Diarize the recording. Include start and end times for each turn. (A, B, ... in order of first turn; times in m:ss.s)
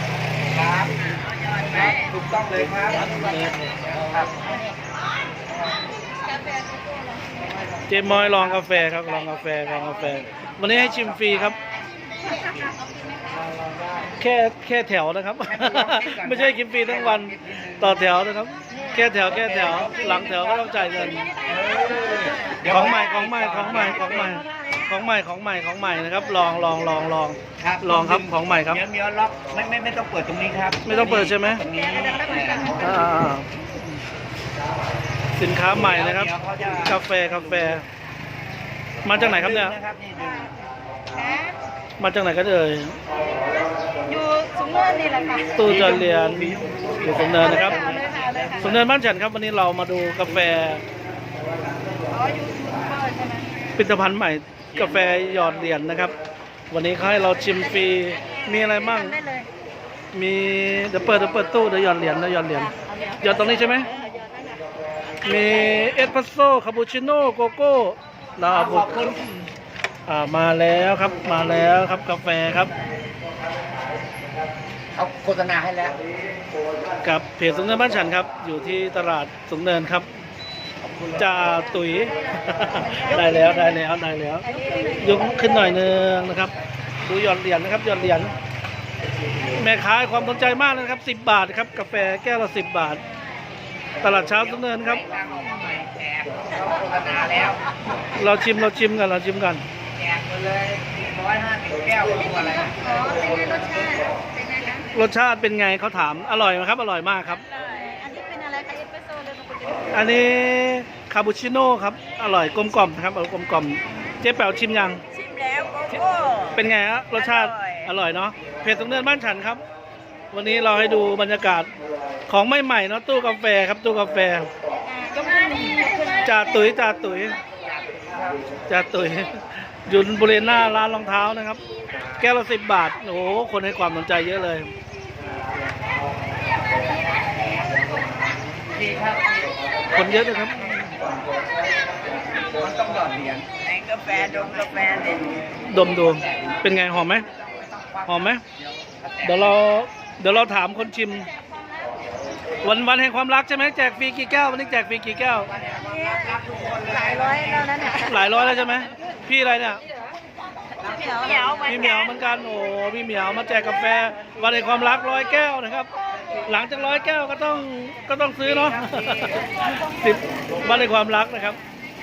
0:00.5-0:04.6 A
0:03.2-0:03.7 B
0:06.4-0:06.7 C
0:07.9-0:11.6 B
0:13.6-0:14.1 A
0:14.2-0:21.3 B
0:15.4-0:18.1 A
0:19.2-0:24.4 A
0:21.5-0:22.2 C
0:22.7-0:28.8 B
0:27.6-0:33.0 A
0:30.9-0:31.6 B
0:31.6-0:32.9 C
0:32.8-0:33.6 B
0:35.4-0:36.3 B
0:35.8-0:37.8 A
0:36.9-0:37.8 B
0:39.0-0:39.8 B
0:39.1-0:40.5 A
0:41.2-0:41.6 C
0:42.0-0:43.0 B
0:44.1-0:45.6 C
0:45.6-0:47.8 B
0:45.6-0:48.6 A
0:47.4-0:48.6 C
0:48.6-0:50.8 B
0:52.1-0:53.5 C
0:53.8-0:56.1 B
0:56.7-0:59.2 B
0:58.2-0:59.5 C
1:00.1-1:03.9 B
1:02.8-1:04.4 C
1:05.2-1:09.2 B
1:08.5-1:09.4 A
1:10.1-1:12.7 B
1:15.0-1:16.0 A
1:17.0-1:20.1 B
1:20.9-1:21.2 A
1:21.2-1:26.5 B
1:22.7-1:23.6 C
1:24.5-1:25.0 C
1:27.0-1:28.3 B
1:29.6-1:33.0 B
1:34.0-1:35.0 B
1:34.2-1:37.6 A
1:38.2-1:39.6 B
1:39.9-1:42.8 A
1:42.8-1:44.9 C
1:44.9-1:47.4 B
1:47.4-1:49.8 C
1:49.9-1:55.0 B
1:55.4-1:56.5 A
1:56.5-1:59.6 B
2:00.3-2:01.7 B
2:02.3-2:04.5 B
2:04.9-2:06.7 C
2:06.2-2:07.4 B
2:07.6-2:08.5 A
2:08.7-2:11.6 B
2:12.2-2:14.7 B
2:18.7-2:21.0 A
2:19.9-2:20.8 B
2:22.5-2:25.4 A
2:25.7-2:27.2 B
2:26.3-2:26.6 A
2:27.4-2:29.6 A
2:28.1-2:28.4 B
2:29.2-2:31.3 B
2:32.6-2:35.5 B
2:35.5-2:37.9 A
2:35.8-2:36.4 C
2:36.9-2:38.2 C
2:37.9-2:39.8 B
2:40.8-2:42.0 C
2:41.1-2:41.5 A
2:41.6-2:45.9 B
2:46.4-2:51.6 B
2:48.6-2:49.5 A